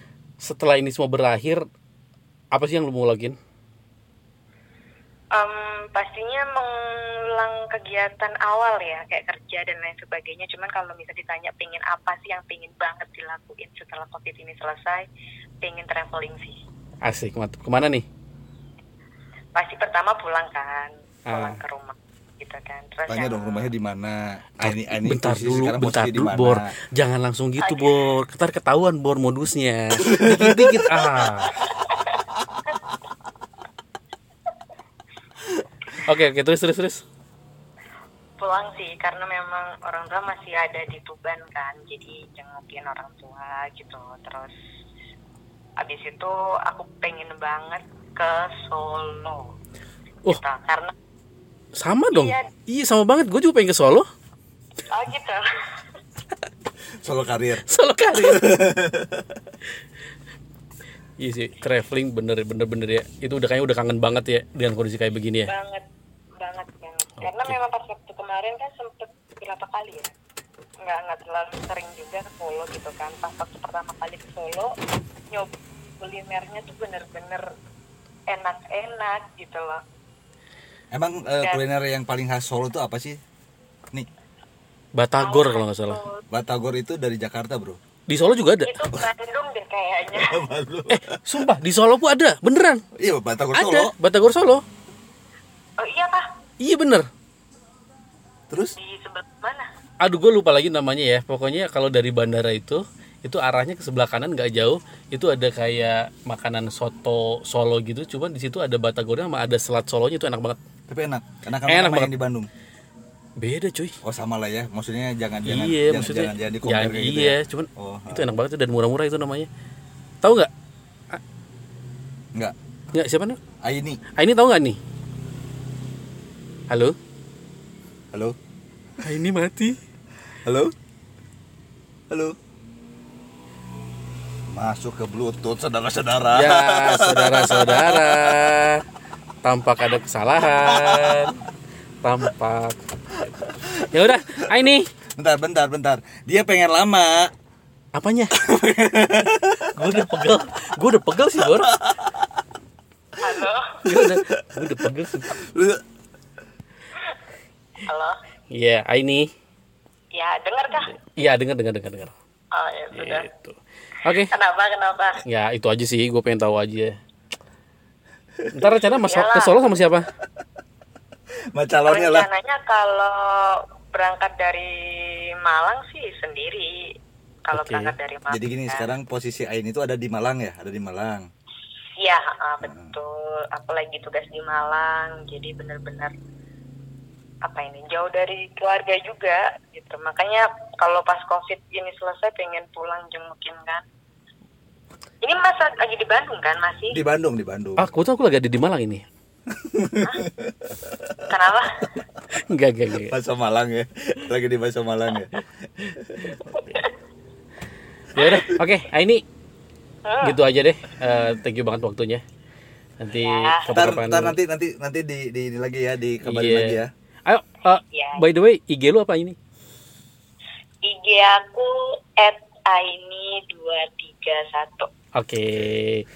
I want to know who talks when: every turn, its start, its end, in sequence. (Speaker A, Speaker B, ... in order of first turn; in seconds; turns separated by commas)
Speaker A: 0.4-1.6, Speaker A: 2.5-3.4, Speaker B: 5.3-15.1, Speaker B: 15.6-16.6, Speaker A: 17.0-18.1, Speaker B: 19.6-23.7, Speaker A: 21.3-21.6, Speaker C: 23.1-26.8, Speaker A: 24.6-31.6, Speaker B: 27.6-28.1, Speaker C: 30.0-30.8, Speaker B: 31.6-32.0, Speaker A: 35.9-37.0, Speaker B: 38.4-44.5, Speaker B: 45.8-49.4, Speaker B: 50.3-50.9, Speaker A: 51.8-54.1, Speaker B: 52.1-52.5, Speaker B: 54.9-55.4, Speaker C: 57.0-59.4, Speaker A: 57.6-58.6, Speaker A: 61.2-65.5, Speaker B: 65.5-65.8, Speaker B: 66.4-70.1, Speaker A: 67.2-67.6, Speaker B: 70.9-74.7, Speaker B: 75.3-77.4, Speaker B: 78.3-79.8, Speaker C: 80.9-83.2, Speaker A: 85.0-86.0, Speaker B: 85.2-86.2, Speaker C: 86.3-87.8, Speaker A: 88.1-88.7, Speaker B: 88.6-90.5, Speaker C: 90.1-91.4, Speaker A: 90.9-92.8, Speaker C: 93.0-93.9, Speaker A: 93.5-94.7, Speaker B: 95.8-96.2, Speaker A: 96.6-97.1, Speaker B: 98.8-99.7, Speaker A: 100.0-110.6, Speaker C: 110.9-112.5, Speaker A: 111.7-112.1, Speaker A: 113.4-114.0, Speaker C: 114.0-118.3, Speaker A: 115.5-119.5, Speaker A: 120.2-120.5, Speaker A: 122.9-123.4, Speaker C: 123.6-124.0, Speaker A: 124.1-124.8, Speaker A: 126.7-127.0, Speaker A: 129.0-129.8, Speaker C: 130.4-130.7, Speaker C: 132.1-132.3, Speaker C: 134.5-138.5, Speaker A: 136.3-138.8, Speaker A: 139.4-141.4, Speaker C: 140.4-141.3, Speaker A: 142.0-142.8, Speaker C: 143.4-144.3, Speaker A: 143.8-144.9, Speaker C: 145.2-147.3, Speaker A: 147.9-148.3, Speaker C: 148.4-150.0, Speaker A: 149.6-151.8, Speaker C: 151.4-152.1, Speaker B: 153.2-153.8, Speaker A: 153.8-155.4, Speaker C: 153.9-155.8, Speaker B: 157.9-158.1, Speaker A: 158.5-159.3, Speaker B: 160.2-160.9, Speaker A: 160.8-162.1, Speaker B: 162.5-163.3, Speaker A: 162.9-164.3, Speaker B: 164.3-165.2, Speaker A: 165.2-166.9, Speaker C: 168.4-168.8, Speaker A: 168.5-170.1, Speaker B: 169.0-169.7, Speaker C: 171.6-172.3, Speaker B: 171.8-174.7, Speaker B: 175.5-176.7, Speaker B: 177.5-178.9, Speaker A: 177.5-177.9, Speaker C: 178.3-181.2, Speaker B: 182.0-186.1, Speaker C: 182.6-183.0, Speaker B: 187.5-193.8, Speaker B: 195.2-197.0, Speaker C: 196.9-197.9, Speaker A: 197.8-199.1, Speaker C: 199.6-201.2, Speaker B: 201.3-201.7, Speaker A: 202.4-203.2, Speaker C: 202.9-206.4, Speaker A: 206.3-206.6, Speaker A: 208.2-209.2, Speaker B: 210.1-210.4, Speaker A: 210.2-212.2, Speaker A: 213.0-214.4, Speaker B: 213.1-213.8, Speaker C: 213.7-216.9, Speaker A: 216.2-219.4, Speaker B: 217.8-218.2, Speaker B: 220.8-224.9, Speaker A: 225.2-226.1